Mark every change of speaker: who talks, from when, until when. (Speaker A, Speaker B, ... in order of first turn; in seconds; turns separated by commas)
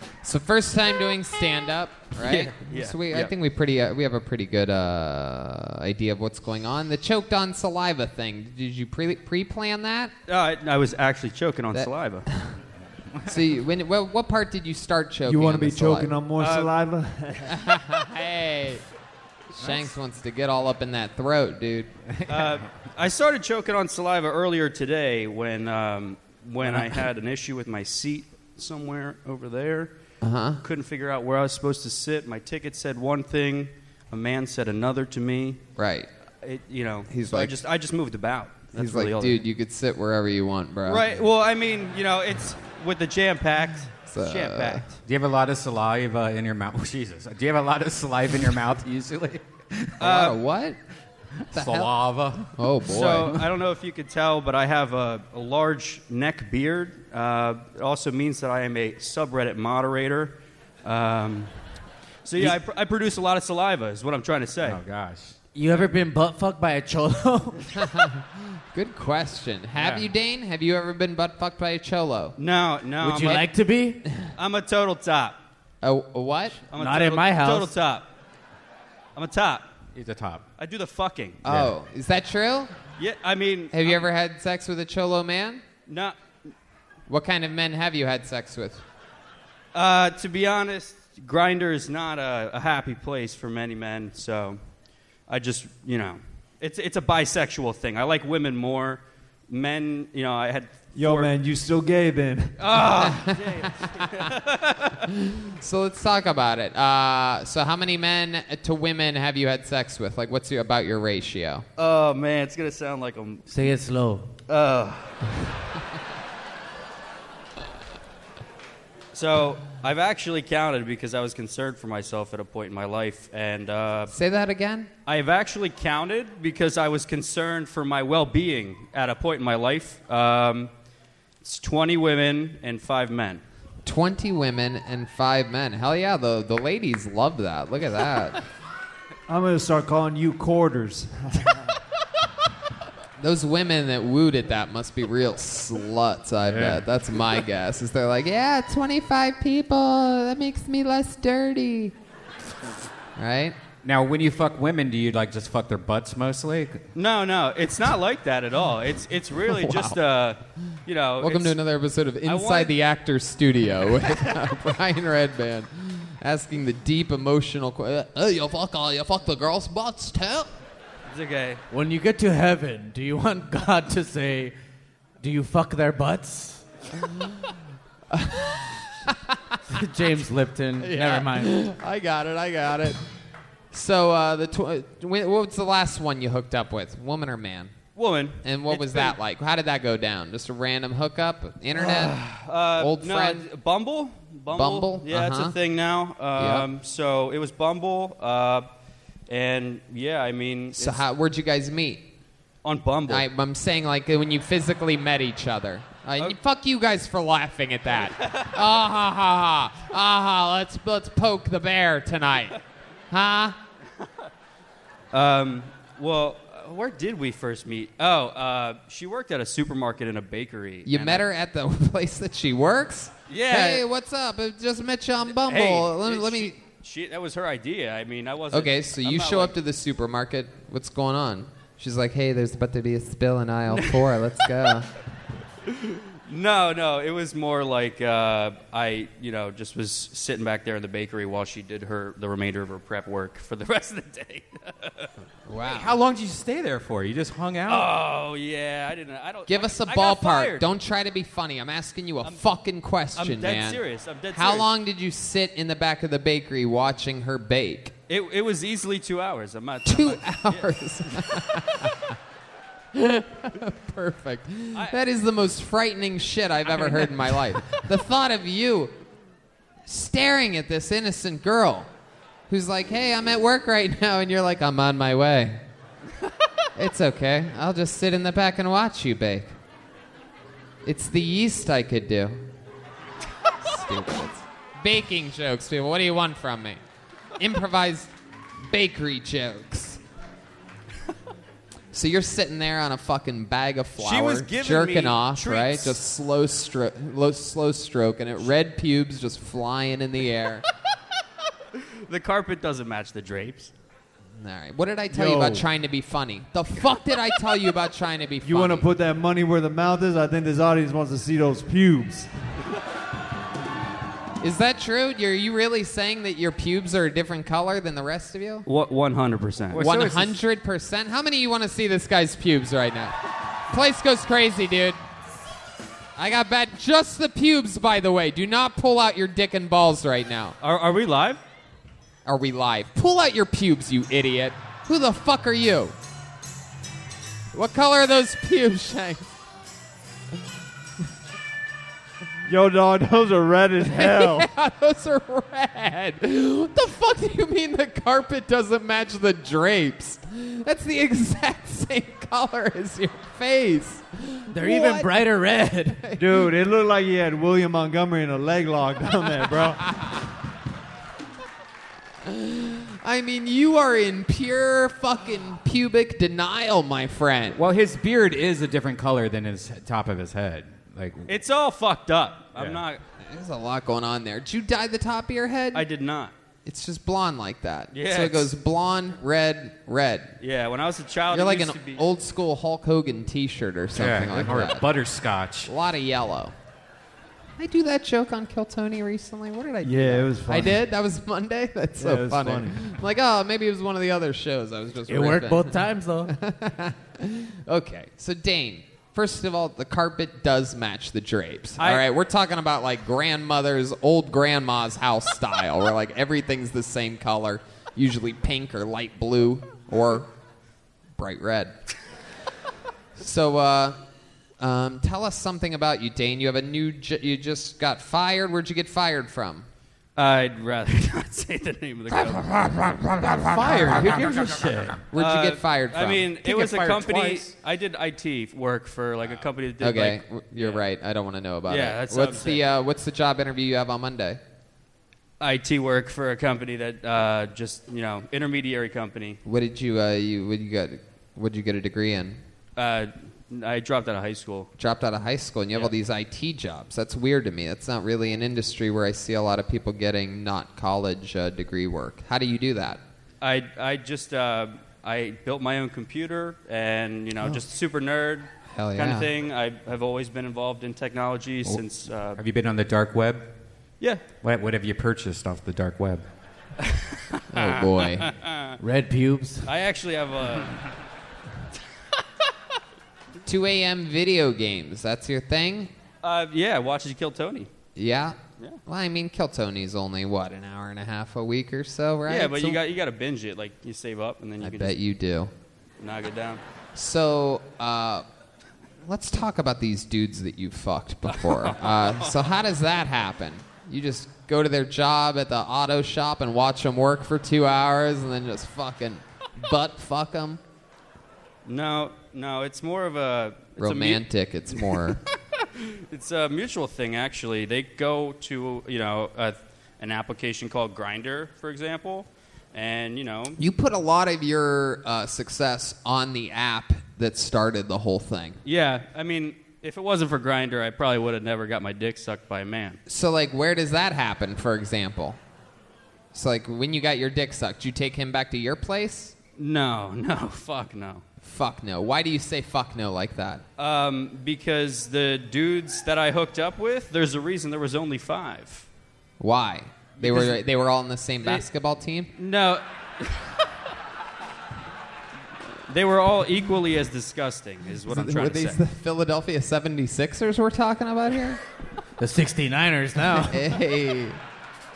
Speaker A: 0.2-10.1, Speaker B: 2.2-3.3, Speaker B: 10.3-12.2, Speaker A: 11.7-12.6, Speaker A: 13.2-16.2, Speaker C: 15.2-17.6, Speaker B: 16.4-16.7, Speaker A: 17.5-18.8, Speaker A: 19.6-21.9, Speaker D: 19.6-19.9, Speaker D: 22.1-22.5, Speaker B: 22.3-29.9, Speaker A: 30.2-30.6, Speaker B: 30.6-35.6, Speaker A: 35.8-36.1, Speaker B: 36.4-39.5, Speaker A: 37.1-37.6, Speaker A: 38.7-41.0, Speaker B: 40.9-45.0, Speaker A: 44.1-44.8, Speaker D: 45.0-50.0, Speaker A: 50.0-50.8, Speaker B: 50.0-50.4, Speaker D: 51.5-52.5, Speaker A: 51.5-53.4, Speaker B: 52.9-61.7, Speaker B: 62.2-64.8, Speaker D: 64.6-65.3, Speaker E: 65.5-67.7, Speaker A: 67.8-72.4, Speaker D: 69.8-70.1, Speaker B: 72.4-73.4, Speaker E: 73.0-74.0, Speaker B: 74.4-75.4, Speaker A: 75.8-76.6, Speaker B: 76.7-78.1, Speaker E: 76.7-77.7, Speaker B: 79.2-79.7, Speaker D: 79.9-80.4, Speaker B: 80.6-81.4, Speaker A: 81.4-82.7, Speaker B: 83.0-84.0, Speaker A: 83.7-85.6, Speaker B: 85.8-86.2, Speaker A: 87.1-88.8, Speaker B: 89.7-94.6, Speaker B: 95.3-101.3, Speaker C: 100.9-102.8, Speaker B: 102.6-105.0, Speaker A: 103.2-103.6, Speaker A: 105.1-111.6, Speaker B: 111.8-113.5, Speaker E: 113.5-114.3, Speaker B: 114.5-115.2, Speaker B: 119.1-124.1, Speaker A: 124.1-124.9, Speaker B: 125.0-130.7, Speaker B: 131.4-133.4, Speaker A: 133.8-138.4, Speaker C: 139.3-141.7, Speaker A: 143.2-151.9, Speaker D: 146.4-146.8, Speaker A: 153.2-153.6, Speaker D: 153.8-156.8, Speaker B: 156.9-161.6, Speaker A: 159.5-160.0, Speaker A: 161.2-170.5, Speaker B: 162.2-162.7, Speaker B: 171.1-171.6, Speaker E: 171.7-174.5, Speaker E: 175.2-176.6, Speaker A: 178.1-179.3, Speaker E: 179.7-181.6, Speaker A: 180.8-183.0, Speaker A: 183.7-187.8, Speaker B: 187.9-189.2, Speaker A: 188.4-192.2, Speaker B: 191.8-198.7, Speaker A: 192.8-193.4, Speaker A: 194.5-195.5, Speaker A: 196.4-196.7, Speaker B: 199.3-201.1, Speaker A: 200.8-202.0, Speaker B: 202.6-203.3, Speaker A: 203.1-212.6, Speaker B: 208.1-208.5, Speaker A: 213.1-213.6, Speaker B: 215.1-221.3, Speaker A: 220.8-226.6, Speaker B: 223.3-223.8, Speaker B: 225.3-229.6, Speaker A: 228.5-234.9, Speaker B: 235.7-245.1, Speaker A: 245.5-245.9, Speaker D: 245.6-247.9, Speaker B: 247.7-250.7, Speaker A: 249.5-253.8, Speaker B: 253.1-254.7, Speaker A: 254.3-257.9, Speaker B: 258.1-260.7, Speaker A: 259.9-261.9, Speaker A: 262.9-268.9, Speaker B: 266.7-267.1, Speaker A: 269.9-271.9, Speaker A: 272.5-275.6, Speaker A: 276.8-279.5, Speaker A: 280.8-282.4, Speaker A: 283.6-286.8, Speaker A: 287.4-288.1, Speaker A: 288.7-290.0, Speaker A: 291.9-300.6, Speaker B: 294.0-296.0, Speaker B: 301.8-303.7, Speaker A: 304.4-308.9, Speaker C: 305.1-305.6, Speaker C: 308.4-312.3, Speaker A: 314.4-318.7, Speaker B: 318.6-319.9, Speaker D: 319.7-320.4, Speaker A: 319.8-323.1, Speaker A: 323.7-325.0, Speaker A: 326.1-330.6, Speaker B: 330.6-331.4, Speaker A: 332.2-335.9, Speaker A: 337.5-339.2, Speaker C: 342.4-344.5, Speaker A: 343.9-355.1, Speaker E: 354.5-356.0, Speaker A: 356.0-356.4, Speaker C: 356.1-359.8, Speaker A: 362.2-367.6, Speaker D: 367.5-371.3, Speaker B: 371.3-373.0, Speaker D: 372.5-372.8, Speaker A: 373.2-375.9, Speaker B: 375.7-376.3, Speaker A: 376.6-380.4, Speaker B: 377.9-378.6, Speaker B: 380.4-382.0, Speaker A: 381.3-384.9, Speaker D: 383.9-385.7, Speaker A: 385.6-386.5, Speaker A: 387.6-410.3, Speaker C: 389.8-390.8, Speaker C: 392.0-392.9, Speaker E: 395.1-396.3, Speaker B: 401.8-402.0, Speaker A: 411.2-411.8, Speaker A: 413.2-414.0, Speaker A: 414.6-419.7, Speaker B: 420.1-422.5, Speaker D: 422.3-425.1, Speaker A: 423.6-424.4, Speaker A: 425.1-426.3, Speaker B: 425.1-430.9, Speaker D: 426.4-427.5, Speaker A: 429.8-434.4, Speaker B: 431.7-432.6, Speaker B: 435.4-439.4, Speaker A: 439.4-442.4, Speaker B: 442.8-444.7, Speaker A: 444.8-453.0, Speaker B: 453.4-462.4, Speaker A: 458.7-459.3, Speaker D: 462.4-463.5, Speaker B: 464.0-464.3, Speaker D: 464.3-466.2, Speaker B: 466.9-468.8, Speaker A: 467.5-468.3, Speaker E: 468.8-469.7, Speaker B: 469.6-470.9, Speaker A: 473.4-475.9, Speaker B: 476.2-477.7, Speaker A: 477.9-482.8, Speaker B: 482.3-485.0, Speaker A: 484.6-485.5, Speaker B: 486.0-486.6, Speaker A: 486.9-488.2, Speaker A: 489.0-500.6, Speaker B: 491.3-492.4, Speaker B: 501.6-504.2, Speaker A: 503.8-505.2, Speaker B: 505.8-513.6, Speaker A: 513.6-518.6, Speaker B: 518.6-523.0, Speaker A: 523.1-525.4, Speaker A: 526.3-529.3, Speaker B: 529.6-531.2, Speaker A: 531.4-533.6, Speaker B: 533.8-538.9, Speaker A: 539.4-542.3, Speaker B: 540.2-540.6, Speaker B: 542.4-543.5, Speaker B: 545.9-548.8, Speaker A: 548.1-551.6, Speaker E: 552.2-553.6, Speaker A: 553.4-554.4